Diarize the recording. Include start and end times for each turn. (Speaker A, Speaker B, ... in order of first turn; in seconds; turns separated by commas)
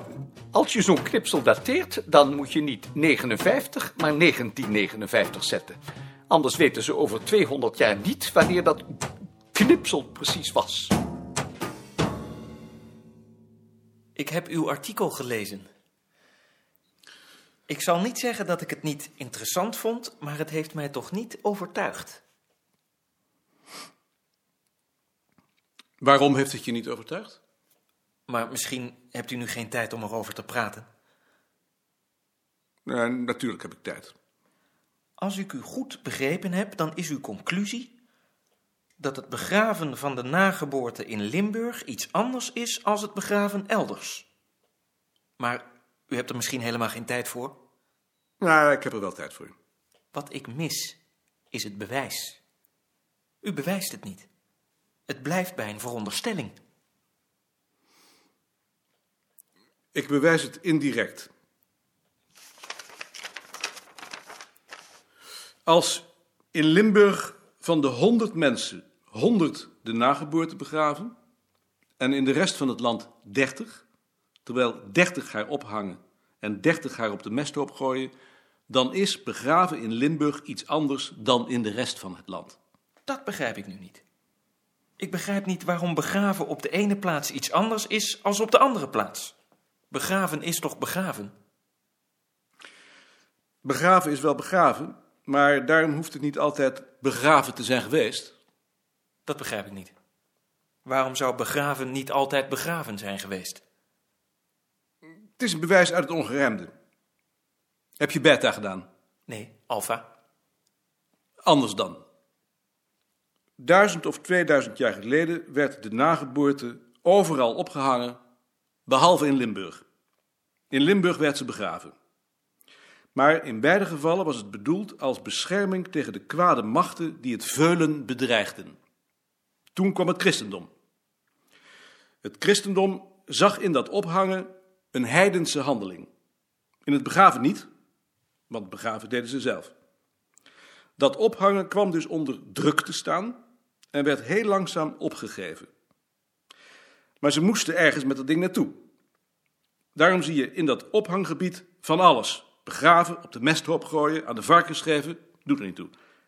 Speaker A: 0.5-9.0, Speaker A: 9.5-10.9, Speaker B: 14.2-15.7, Speaker B: 17.7-22.2, Speaker C: 26.0-27.4, Speaker B: 28.3-30.9, Speaker C: 32.9-34.1, Speaker B: 35.2-37.9, Speaker B: 39.0-44.3, Speaker B: 45.4-47.6, Speaker C: 48.4-49.5, Speaker B: 50.1-51.0, Speaker B: 51.5-52.4, Speaker B: 53.4-54.3, Speaker B: 55.1-56.6, Speaker C: 59.9-61.3, Speaker C: 65.7-71.1, Speaker C: 72.0-73.8, Speaker C: 74.5-78.1, Speaker C: 78.7-82.6, Speaker B: 83.1-84.0, Speaker B: 85.0-89.3, Speaker B: 89.9-91.3, Speaker C: 93.6-98.3, Speaker B: 99.3-99.9, Speaker B: 100.8-103.6, Speaker C: 105.4-106.7, Speaker C: 108.0-108.9, Speaker B: 109.3-110.1, Speaker C: 111.4-112.0, Speaker C: 113.6-118.2, Speaker C: 118.9-119.8, Speaker C: 120.7-121.9, Speaker C: 123.2-128.8, Speaker C: 129.8-130.7, Speaker C: 132.2-136.1, Speaker C: 136.9-137.7, Speaker C: 138.5-139.7, Speaker C: 141.0-143.4, Speaker C: 143.9-145.7, Speaker C: 147.2-148.8, Speaker C: 150.0-155.9